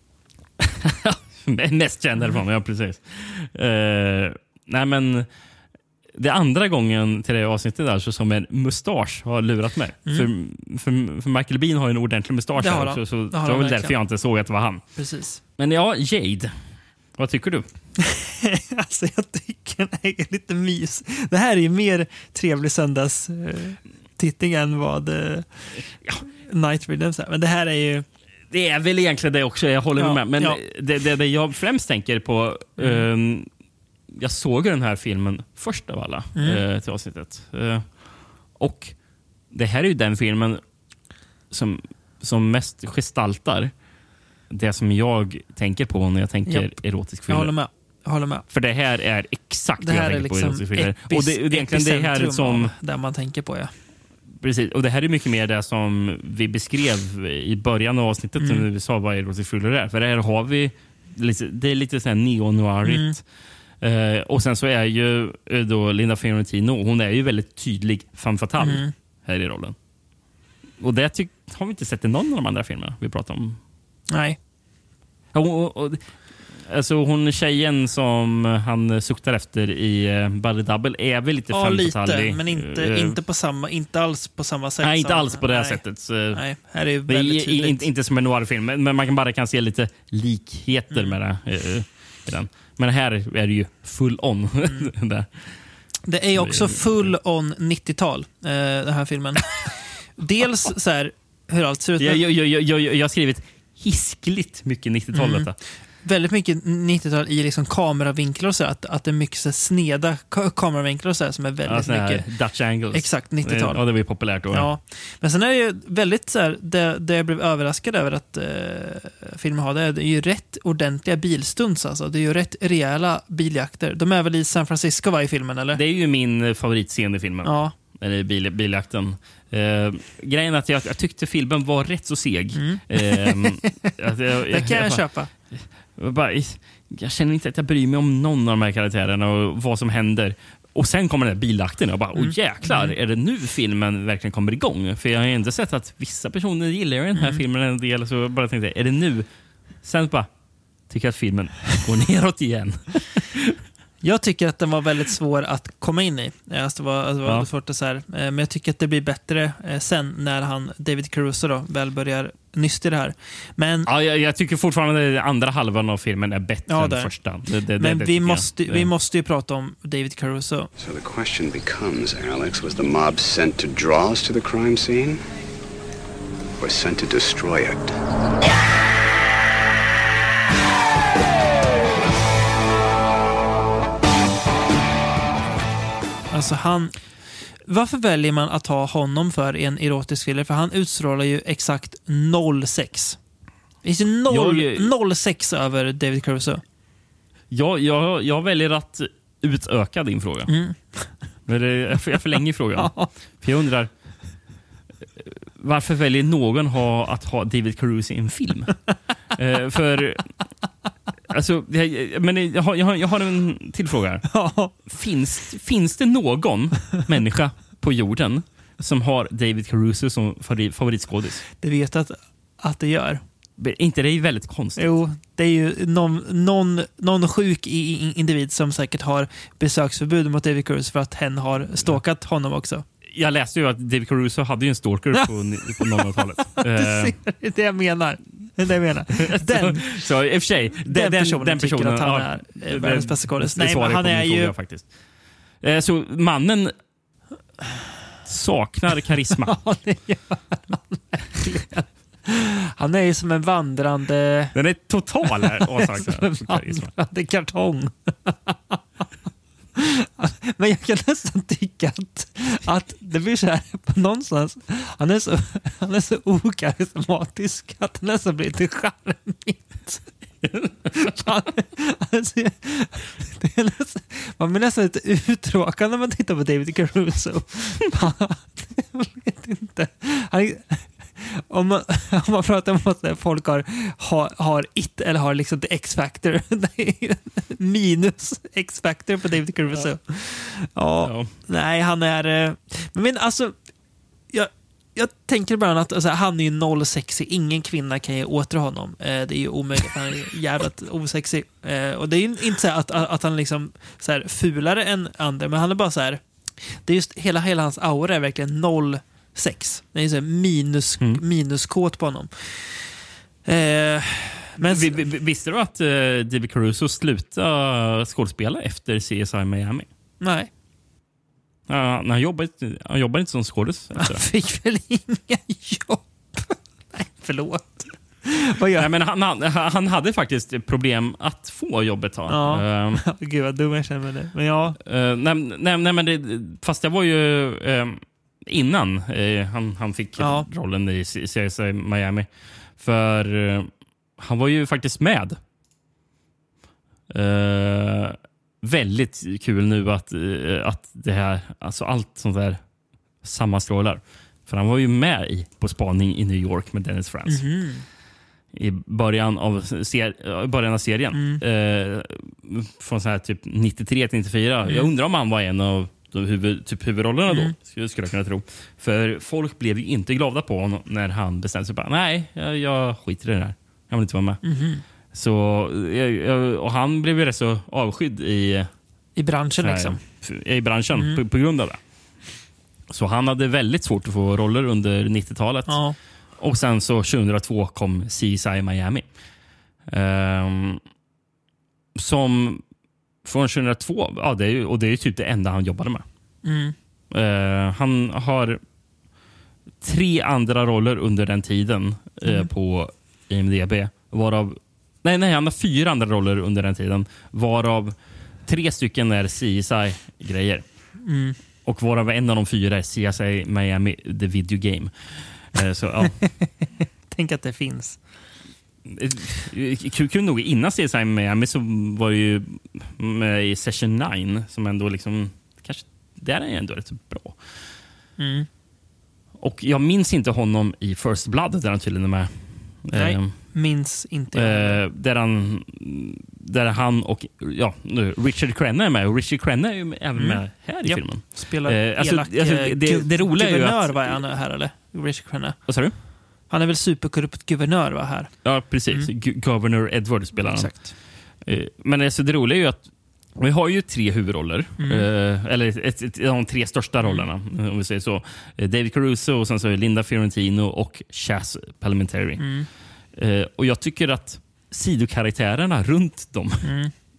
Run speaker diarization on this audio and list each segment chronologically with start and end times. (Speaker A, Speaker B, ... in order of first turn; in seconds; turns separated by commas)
Speaker A: 0.6-5.3, Speaker A: 6.1-14.8, Speaker B: 12.6-13.9, Speaker B: 14.9-15.4, Speaker A: 15.6-16.5, Speaker A: 17.1-17.7, Speaker B: 18.0-28.0, Speaker A: 28.5-33.5, Speaker B: 29.9-30.6, Speaker B: 32.8-33.0, Speaker A: 34.1-39.0, Speaker B: 36.4-36.6, Speaker A: 39.5-40.6, Speaker A: 41.5-43.7, Speaker A: 44.5-47.5, Speaker B: 46.5-48.5, Speaker A: 48.5-52.7, Speaker B: 49.8-53.7, Speaker A: 54.4-63.2, Speaker B: 58.4-58.6, Speaker B: 62.8-63.2, Speaker A: 63.8-69.7, Speaker B: 68.6-68.9, Speaker A: 70.8-73.6, Speaker B: 74.1-74.4, Speaker A: 75.3-83.2, Speaker B: 81.5-87.9, Speaker A: 84.8-95.4, Speaker B: 94.6-94.9, Speaker B: 96.0-102.2, Speaker A: 96.3-97.1, Speaker A: 102.0-105.6, Speaker B: 105.1-112.3, Speaker A: 111.6-114.7, Speaker B: 112.9-125.8, Speaker A: 125.7-149.3, Speaker B: 127.4-127.7, Speaker B: 132.5-133.9, Speaker B: 134.5-135.3, Speaker B: 142.1-142.9, Speaker B: 147.1-147.4, Speaker A: 149.8-150.3, Speaker A: 150.9-153.6, Speaker B: 154.0-163.9, Speaker A: 163.8-168.9, Speaker B: 166.7-167.2, Speaker B: 167.8-170.7, Speaker C: 170.8-175.2, Speaker C: 176.6-177.9, Speaker B: 186.3-193.2, Speaker B: 193.8-196.6, Speaker A: 194.3-194.9, Speaker A: 197.5-200.5, Speaker B: 200.5-201.3, Speaker A: 201.4-204.4, Speaker B: 202.8-203.1, Speaker A: 205.2-210.3, Speaker A: 211.3-221.4, Speaker B: 214.3-214.8, Speaker B: 221.6-223.2, Speaker A: 223.6-225.0, Speaker B: 224.8-232.8, Speaker A: 233.1-237.2, Speaker B: 235.2-240.1, Speaker A: 239.2-246.7, Speaker B: 240.8-244.5, Speaker A: 248.2-249.8, Speaker B: 249.4-254.6, Speaker A: 254.5-256.9, Speaker B: 255.2-258.8, Speaker B: 259.8-270.1, Speaker B: 270.9-293.6, Speaker A: 291.0-291.3, Speaker B: 294.3-315.0, Speaker A: 314.6-319.9, Speaker B: 320.2-320.5, Speaker A: 321.7-324.2, Speaker B: 323.9-328.9, Speaker A: 328.8-333.0, Speaker B: 332.3-334.8, Speaker A: 334.8-345.4, Speaker B: 340.2-340.5, Speaker A: 347.1-352.7, Speaker A: 353.2-357.6, Speaker B: 357.3-357.8, Speaker A: 358.5-378.7, Speaker B: 361.1-361.4, Speaker B: 367.3-367.5, Speaker B: 374.4-374.8, Speaker B: 379.1-380.2, Speaker A: 379.5-389.1, Speaker B: 380.9-381.2, Speaker B: 385.7-386.0, Speaker A: 389.8-390.8, Speaker A: 391.9-392.6, Speaker A: 393.2-396.0, Speaker B: 396.4-396.7, Speaker A: 397.1-398.6, Speaker A: 399.8-411.0, Speaker B: 411.0-411.4, Speaker A: 411.6-416.3, Speaker B: 416.1-418.0, Speaker A: 418.8-427.6, Speaker B: 428.2-428.5, Speaker A: 429.4-433.7, Speaker B: 432.9-434.8, Speaker A: 434.3-444.2, Speaker B: 440.1-449.1, Speaker A: 445.6-445.9, Speaker A: 448.4-462.6, Speaker B: 450.4-450.9, Speaker B: 454.8-455.1, Speaker B: 457.0-457.3, Speaker B: 462.4-462.7, Speaker A: 463.1-466.7, Speaker B: 466.6-466.9